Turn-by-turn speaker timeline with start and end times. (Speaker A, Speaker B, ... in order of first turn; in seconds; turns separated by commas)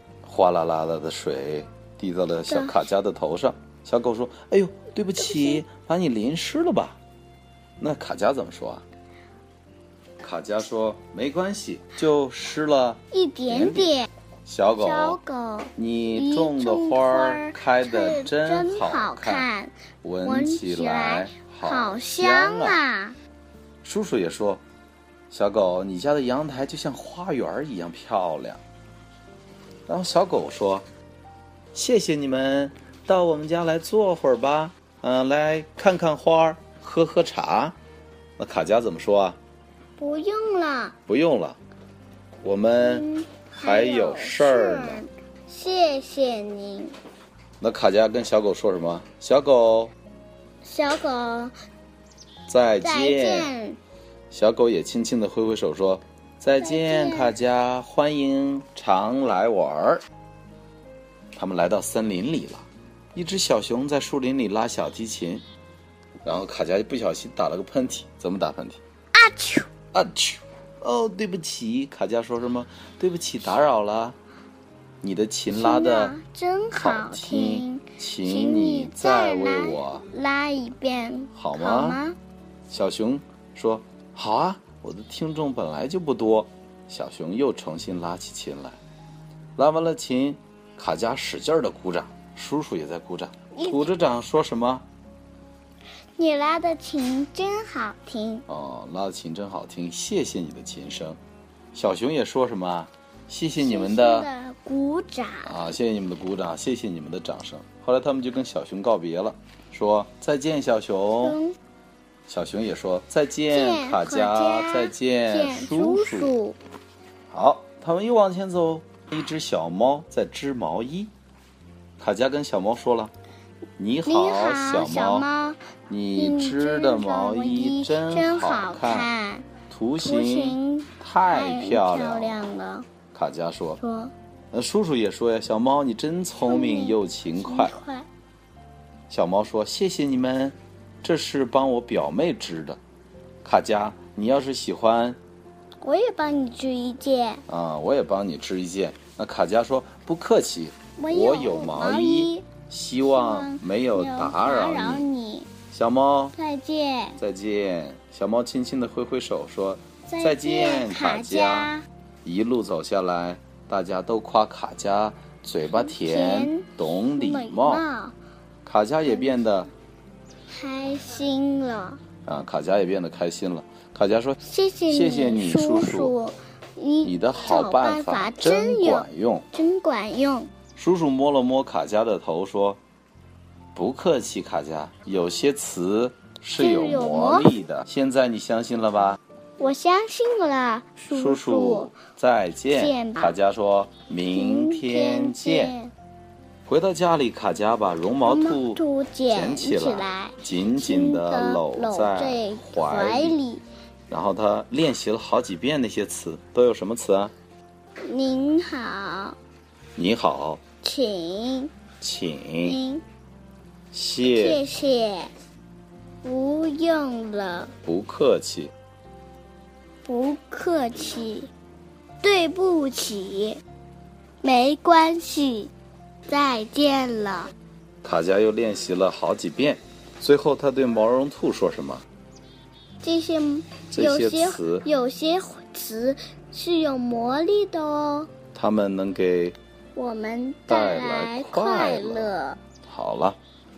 Speaker A: 0.2-7.0, Speaker B: 2.5-2.8, Speaker B: 5.2-5.6, Speaker A: 7.8-8.8, Speaker A: 10.2-13.9, Speaker B: 13.1-14.1, Speaker A: 14.4-15.2, Speaker B: 14.8-23.2, Speaker A: 15.8-19.5, Speaker A: 20.0-22.8, Speaker A: 23.8-24.6, Speaker A: 25.3-28.6, Speaker A: 29.9-30.9, Speaker A: 31.7-37.8, Speaker A: 38.4-39.4, Speaker B: 40.0-41.0, Speaker A: 41.1-41.6, Speaker A: 42.4-45.0, Speaker B: 42.8-46.9, Speaker A: 47.6-49.9, Speaker B: 50.6-51.5, Speaker A: 52.5-53.5, Speaker B: 52.8-53.8, Speaker A: 54.3-60.0, Speaker B: 56.6-57.4, Speaker A: 61.3-65.4, Speaker A: 66.2-68.8, Speaker B: 69.1-69.7, Speaker A: 69.9-74.2, Speaker A: 75.0-76.2, Speaker B: 75.5-82.2, Speaker A: 76.8-80.0, Speaker A: 81.3-82.0, Speaker A: 82.7-88.8, Speaker A: 89.5-94.8, Speaker B: 93.5-93.9, Speaker B: 96.2-98.5, Speaker A: 98.5-101.2, Speaker A: 101.7-104.3, Speaker B: 103.6-105.7, Speaker A: 105.4-111.4, Speaker B: 111.2-111.5, Speaker A: 112.3-116.3, Speaker B: 113.5-116.6, Speaker A: 117.3-121.1, Speaker A: 122.0-123.1, Speaker A: 123.8-125.3, Speaker B: 124.0-125.6, Speaker A: 125.9-129.1, Speaker B: 126.2-132.9, Speaker A: 129.7-132.4, Speaker A: 133.1-133.8, Speaker B: 133.8-134.1, Speaker A: 134.5-137.7, Speaker B: 136.3-138.1, Speaker A: 139.1-142.8, Speaker A: 143.4-145.2, Speaker B: 145.8-147.4, Speaker A: 147.5-155.1, Speaker B: 151.0-152.5, Speaker B: 153.0-155.5, Speaker A: 155.7-156.3, Speaker B: 156.3-157.2, Speaker A: 157.2-161.7, Speaker B: 160.1-161.8, Speaker A: 162.2-167.8, Speaker B: 165.7-168.2, Speaker A: 168.7-169.7, Speaker B: 170.5-172.0, Speaker A: 172.2-176.1, Speaker B: 174.4-180.5, Speaker A: 177.0-179.5, Speaker A: 180.8-182.8, Speaker A: 183.7-189.2, Speaker B: 186.5-187.5, Speaker B: 189.6-191.9, Speaker A: 191.1-195.8, Speaker B: 192.7-193.4, Speaker B: 194.3-195.9, Speaker A: 196.7-203.4, Speaker B: 198.2-203.6, Speaker A: 204.1-207.3, Speaker B: 208.1-209.4, Speaker A: 209.9-210.6, Speaker B: 210.8-211.7, Speaker A: 212.0-212.8, Speaker B: 212.6-213.0, Speaker A: 213.9-214.6, Speaker B: 214.3-215.3, Speaker B: 216.2-217.7, Speaker A: 217.8-218.7, Speaker B: 220.0-221.5, Speaker B: 222.2-223.6, Speaker B: 224.4-225.7, Speaker B: 226.3-227.5, Speaker A: 228.0-232.1, Speaker B: 233.0-238.3, Speaker A: 233.9-234.9, Speaker A: 238.5-239.6, Speaker B: 239.9-242.6, Speaker A: 240.7-242.3, Speaker A: 242.8-243.4